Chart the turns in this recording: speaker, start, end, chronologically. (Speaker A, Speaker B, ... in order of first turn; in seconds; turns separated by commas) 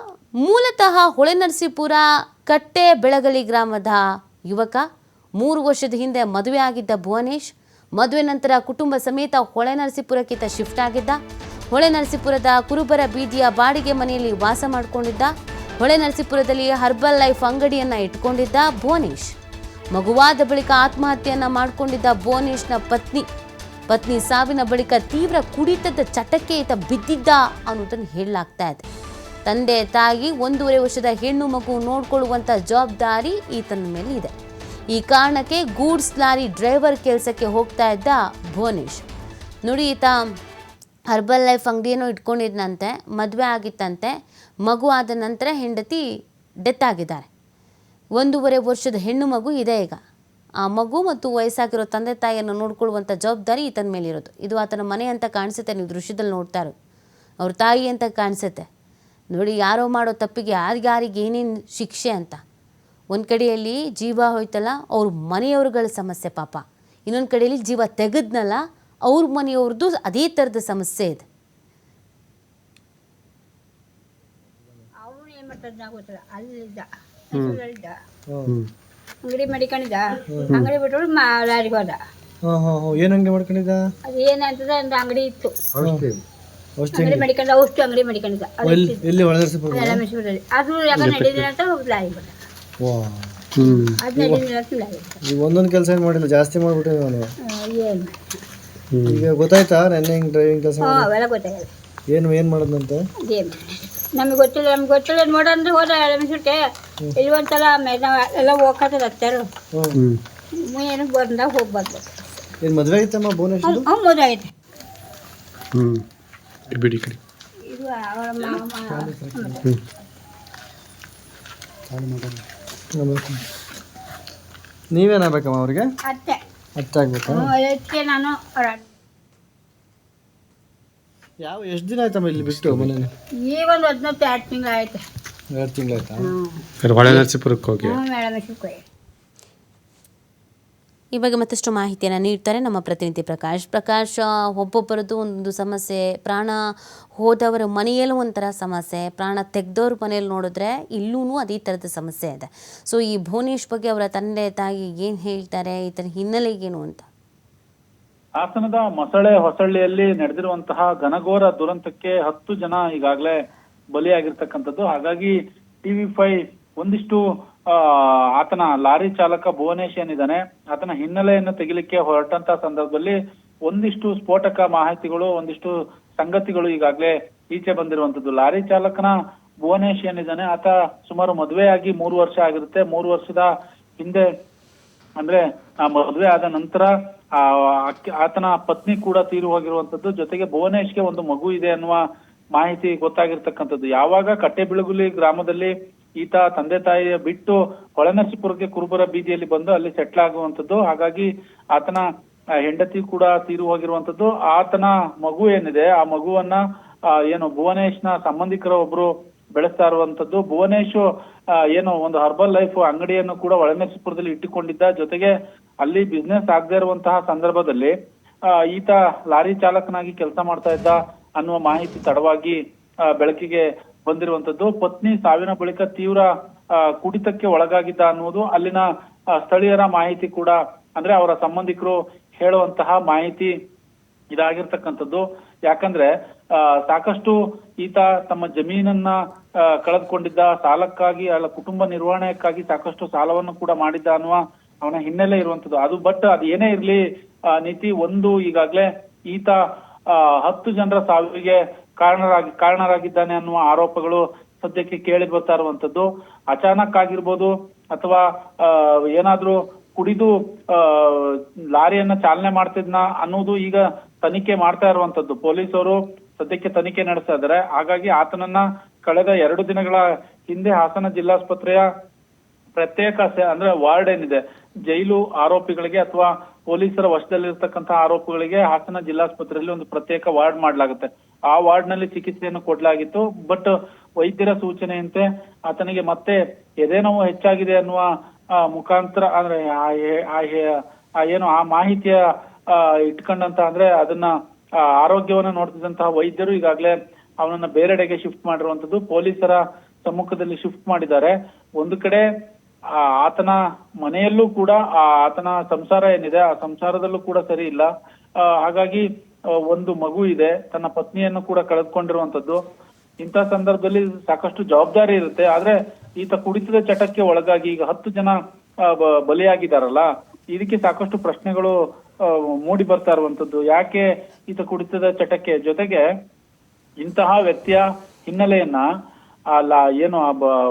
Speaker A: 0.4-4.8, Speaker A: 5.4-11.2, Speaker A: 11.7-19.3, Speaker A: 19.9-23.2, Speaker A: 23.9-28.8, Speaker A: 29.4-34.3, Speaker A: 34.9-39.0, Speaker A: 39.6-40.1, Speaker A: 41.1-44.1, Speaker A: 44.6-46.0, Speaker A: 46.7-47.2, Speaker A: 48.2-50.0, Speaker A: 50.6-56.7, Speaker A: 57.4-58.7, Speaker A: 59.3-62.4, Speaker A: 63.1-71.2, Speaker B: 75.0-77.9, Speaker C: 77.3-77.6, Speaker B: 79.2-82.0, Speaker D: 82.5-83.8, Speaker B: 84.1-85.6, Speaker D: 85.8-86.1, Speaker D: 86.8-87.3, Speaker B: 86.9-89.0, Speaker D: 88.6-90.0, Speaker B: 89.7-92.3, Speaker C: 91.0-91.5, Speaker D: 92.8-93.4, Speaker C: 93.6-94.0, Speaker B: 94.0-95.2, Speaker D: 94.2-94.4, Speaker D: 95.2-97.2, Speaker B: 97.5-98.2, Speaker C: 98.9-99.3, Speaker D: 99.1-101.1, Speaker B: 100.8-101.7, Speaker D: 102.1-103.0, Speaker B: 103.3-106.6, Speaker B: 107.2-109.5, Speaker C: 109.9-110.2, Speaker B: 110.7-112.4, Speaker D: 112.6-113.9, Speaker B: 113.6-114.5, Speaker C: 115.7-116.0, Speaker C: 116.7-117.2, Speaker B: 117.7-119.6, Speaker D: 118.5-119.6, Speaker D: 122.9-123.4, Speaker D: 124.9-125.9, Speaker B: 126.1-126.4, Speaker D: 126.8-127.5, Speaker B: 127.3-128.8, Speaker D: 131.4-133.1, Speaker C: 132.4-132.9, Speaker B: 133.5-135.0, Speaker D: 135.6-136.3, Speaker B: 136.2-137.2, Speaker C: 136.8-138.0, Speaker B: 137.8-138.8, Speaker A: 141.1-146.6, Speaker A: 147.2-157.1, Speaker E: 158.4-163.3, Speaker E: 163.9-167.2, Speaker E: 167.7-173.2, Speaker E: 173.7-179.1, Speaker E: 179.7-183.5, Speaker E: 185.2-186.9, Speaker E: 187.4-192.0, Speaker E: 192.6-202.0, Speaker E: 202.7-206.6, Speaker E: 207.3-211.0, Speaker E: 211.7-215.3, Speaker E: 215.8-217.9, Speaker E: 218.7-222.6, Speaker E: 223.2-226.3, Speaker E: 227.0-228.8, Speaker E: 229.4-233.5, Speaker E: 234.3-236.1, Speaker E: 236.8-239.1, Speaker E: 239.8-247.0, Speaker E: 247.6-249.6, Speaker E: 250.1-271.9, Speaker E: 272.8-283.7, Speaker E: 284.2-288.1, Speaker E: 288.7-290.6, Speaker E: 291.2-292.2, Speaker E: 292.7-294.3, Speaker E: 295.0-302.2, Speaker E: 303.2-307.9, Speaker E: 308.6-309.0, Speaker E: 309.7-312.6, Speaker E: 313.2-318.3, Speaker E: 318.9-321.7, Speaker E: 322.7-326.0, Speaker E: 327.0-328.8, Speaker E: 329.6-330.5